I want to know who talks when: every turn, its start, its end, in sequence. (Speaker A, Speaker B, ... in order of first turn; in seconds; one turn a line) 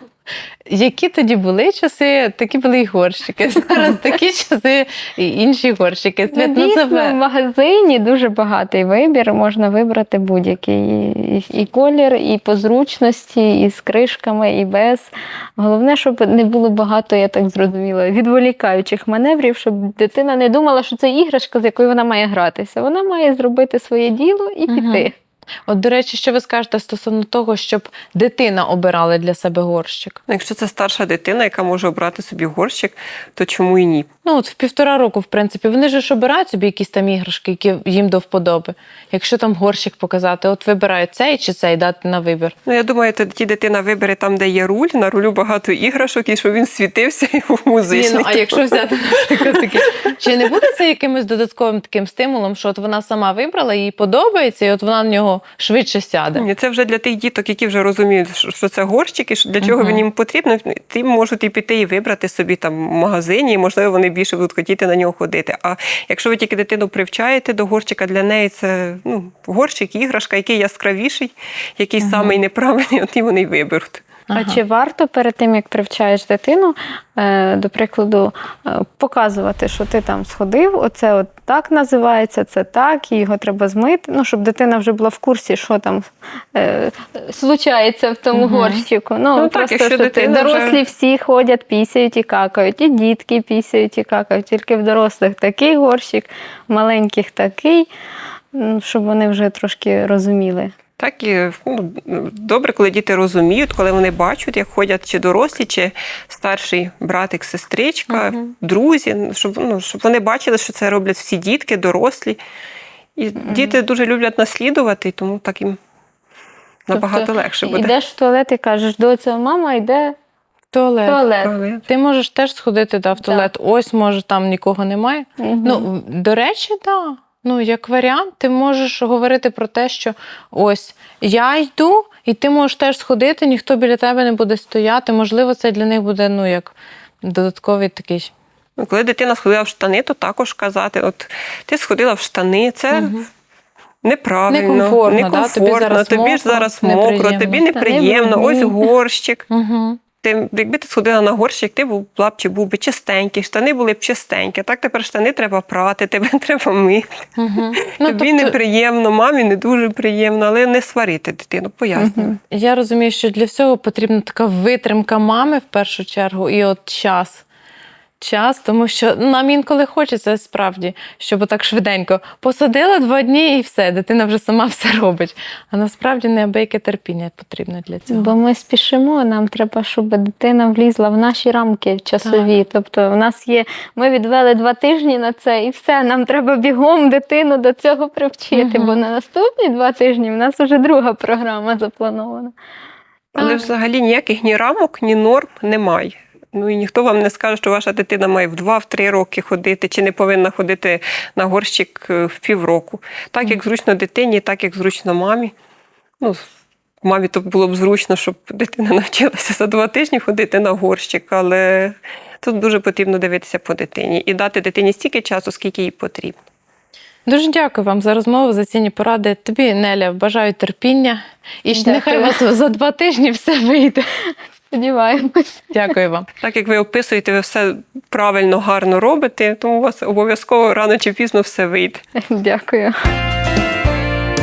Speaker A: 0.7-7.2
Speaker B: 6.3-25.1
Speaker A: 24.7-25.1
Speaker A: 25.7-30.2
Speaker C: 30.3-34.1
Speaker A: 34.2-42.5
Speaker C: 42.6-50.1
Speaker A: 47.9-56.5
Speaker C: 56.4-74.1
Speaker A: 59.6-60.0
Speaker A: 72.0-72.4
Speaker A: 74.3-74.6
Speaker B: 74.3-97.9
Speaker A: 88.3-88.8
Speaker C: 89.4-90.8
Speaker B: 98.5-100.7
Speaker C: 101.0-112.4
Speaker A: 108.1-108.5
Speaker C: 113.2-115.8
Speaker B: 113.4-113.8
Speaker C: 116.9-117.9
Speaker B: 116.9-120.2
Speaker A: 120.7-121.2
Speaker B: 121.1-121.5
Speaker C: 121.4-121.8
Speaker A: 121.9-138.3
Speaker B: 123.2-123.5
Speaker B: 125.4-125.9
Speaker C: 138.8-143.2
Speaker A: 142.9-143.3
Speaker C: 144.0-149.5
Speaker A: 144.5-147.7
Speaker B: 147.7-148.8
Speaker A: 149.5-150.0
Speaker C: 150.2-162.4
Speaker A: 157.4-158.6
Speaker B: 162.0-162.4
Speaker A: 162.5-167.4
Speaker A: 168.2-178.3
Speaker B: 178.1-192.5
Speaker A: 182.2-182.5
Speaker A: 188.5-189.0
Speaker C: 193.3-205.5
Speaker B: 193.4-193.6
Speaker C: 206.2-206.5
Speaker C: 207.0-216.4
Speaker A: 217.3-224.1
Speaker B: 221.7-222.4
Speaker B: 224.7-225.9
Speaker A: 225.7-226.3
Speaker C: 226.4-232.0
Speaker B: 232.2-232.9